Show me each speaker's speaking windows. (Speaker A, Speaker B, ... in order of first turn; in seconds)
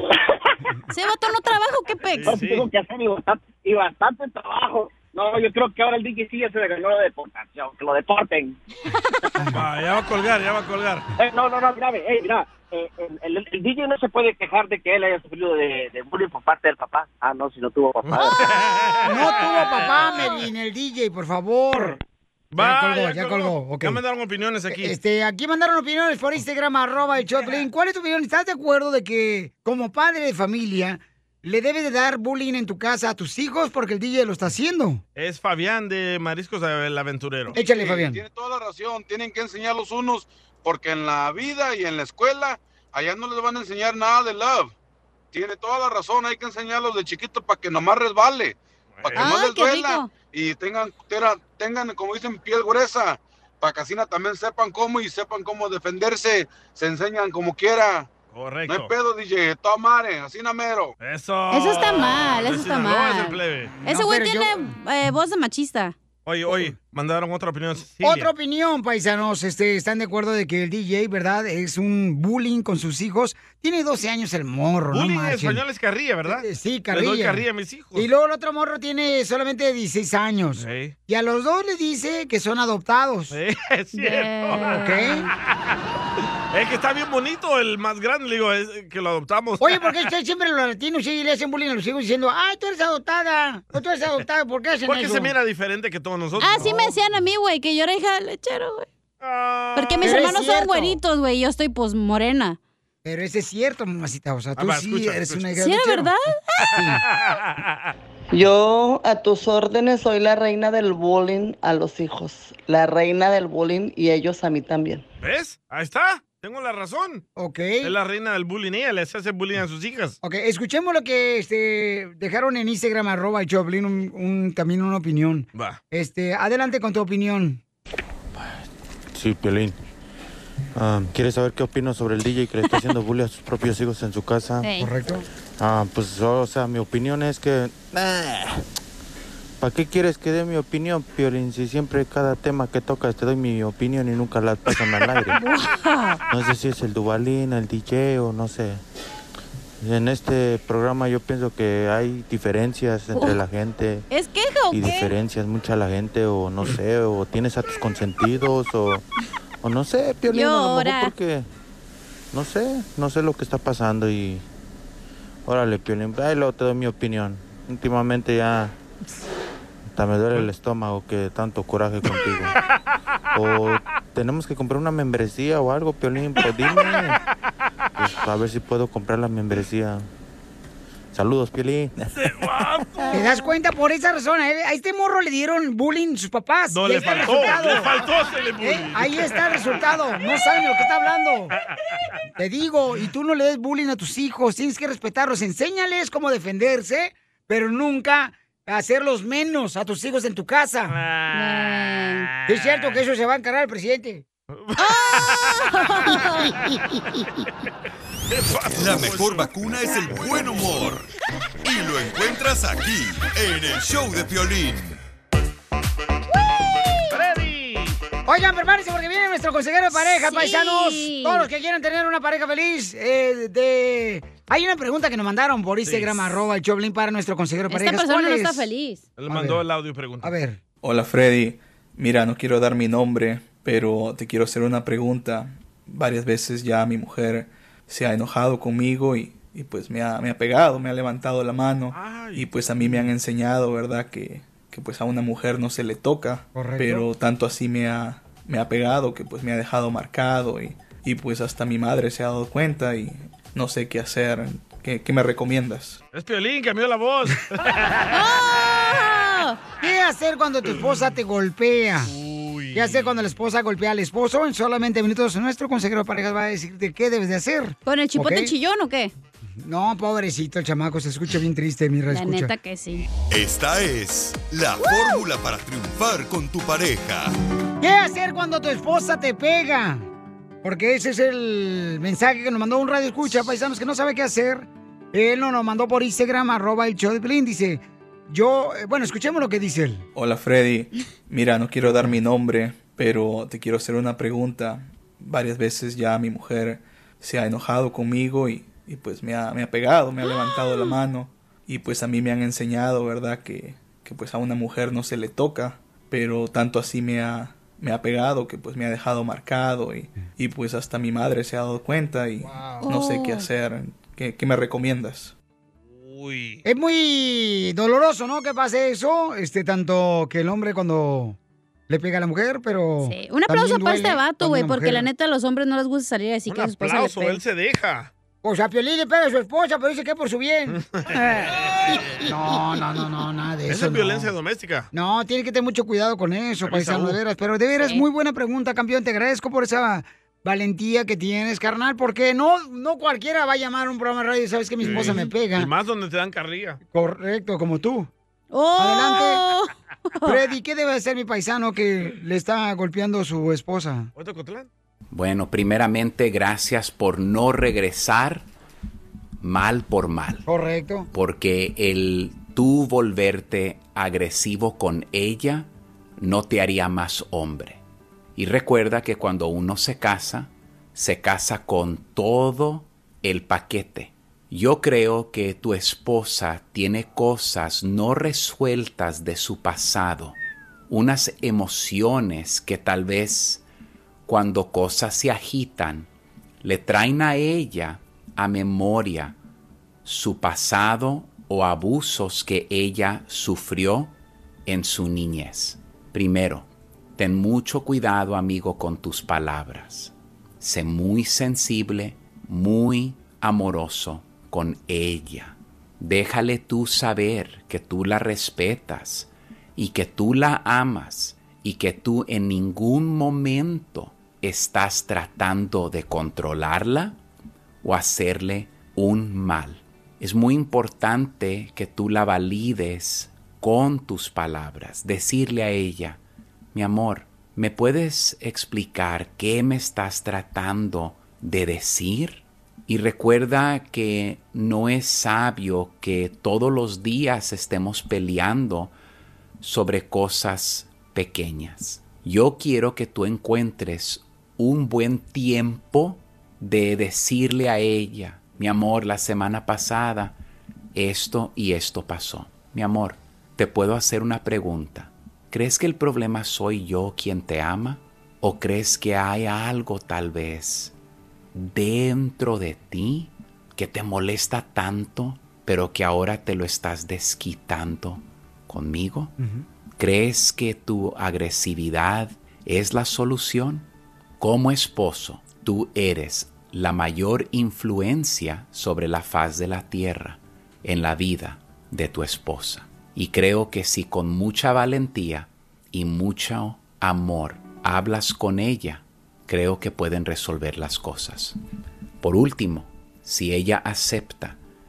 Speaker A: 0.9-2.4, 8.9-9.3, 49.1-50.1, 61.5-65.9, 83.9-85.2, 96.4-98.9, 99.7-102.6, 105.6-106.7, 134.6-134.9, 145.3-146.2, 154.1-155.1, 160.3-161.1, 201.3-202.3, 204.8-206.5, 219.9-221.5, 227.7-229.0, 258.1-259.6, 267.9-269.1, 272.1-273.1, 274.8-275.2, 300.3-300.9, 312.8-313.5, 323.0-327.4, 331.1-331.4, 348.5-350.4
Speaker B: 2.1-2.7, 9.4-11.1, 18.0-20.3, 22.5-24.9, 35.1-37.6, 49.0-49.3, 58.3-58.9, 61.0-63.7, 66.2-68.3, 74.9-78.1, 80.6-80.9, 83.3-85.5, 86.5-90.1, 94.8-96.7, 99.2-100.4, 104.6-105.5, 107.1-107.9, 115.2-117.2, 117.8-120.2, 182.1-183.2, 186.7-189.8, 200.9-201.8, 202.5-202.9, 204.5-205.7, 208.3-209.5, 217.1-218.0, 225.8-226.4, 229.2-230.3, 241.9-242.5, 256.1-258.1, 262.1-263.3, 315.9-316.6, 326.5-328.1, 330.7-331.1, 333.7-334.9, 336.6-337.2, 344.8-346.8, 354.1-354.7
Speaker C: 2.2-8.6, 11.2-18.5
Speaker D: 19.0-22.0, 22.6-24.0, 24.7-35.0, 37.5-38.2, 63.8-64.7, 68.0-75.6, 76.3-77.4, 77.9-83.3, 84.8-85.3, 89.6-95.3, 96.5-96.9, 100.0-101.0, 103.0-106.1, 106.7-107.0, 117.4-117.9, 120.2-127.6, 134.8-135.2, 183.1-187.9, 188.6-191.5, 192.4-200.9, 202.4-204.2, 218.2-228.7, 229.3-229.6, 230.2-230.6, 242.8-243.1, 246.5-247.1, 259.8-262.1, 262.7-268.5, 269.6-272.5, 277.8-280.1, 280.6-290.0, 312.4-312.9, 316.6-321.4, 321.9-325.1, 328.4-330.8, 332.2-334.3, 334.9-345.7, 346.9-348.1, 348.8-349.4, 350.2-354.1, 360.4-361.1
Speaker E: 37.5-44.7, 45.3-48.6, 49.1-58.1, 58.7-60.9
Speaker F: 108.3-115.0
Speaker G: 129.1-129.7, 130.7-134.7, 135.6-138.6, 139.6-145.4, 146.3-148.8, 149.8-154.1, 154.7-159.0, 159.6-161.4, 162.3-164.4, 165.4-168.7, 169.9-172.6, 173.3-177.2, 178.0-180.1, 181.1-181.9
Speaker H: 208.7-211.1, 211.6-215.0, 273.2-277.3
Speaker I: 230.8-256.0, 290.1-315.3
Speaker J: 355.1-358.4, 359.4-360.4, 361.1-367.8, 368.4-380.4, 380.9-383.6, 384.2-386.1, 386.6-389.4, 390.0-394.1, 394.6-417.2, 417.8-426.2, 426.7-438.9, 439.6-450.4, 450.9-460.9, 461.5-469.3, 470.0-473.9, 474.4-491.6, 492.2-494.6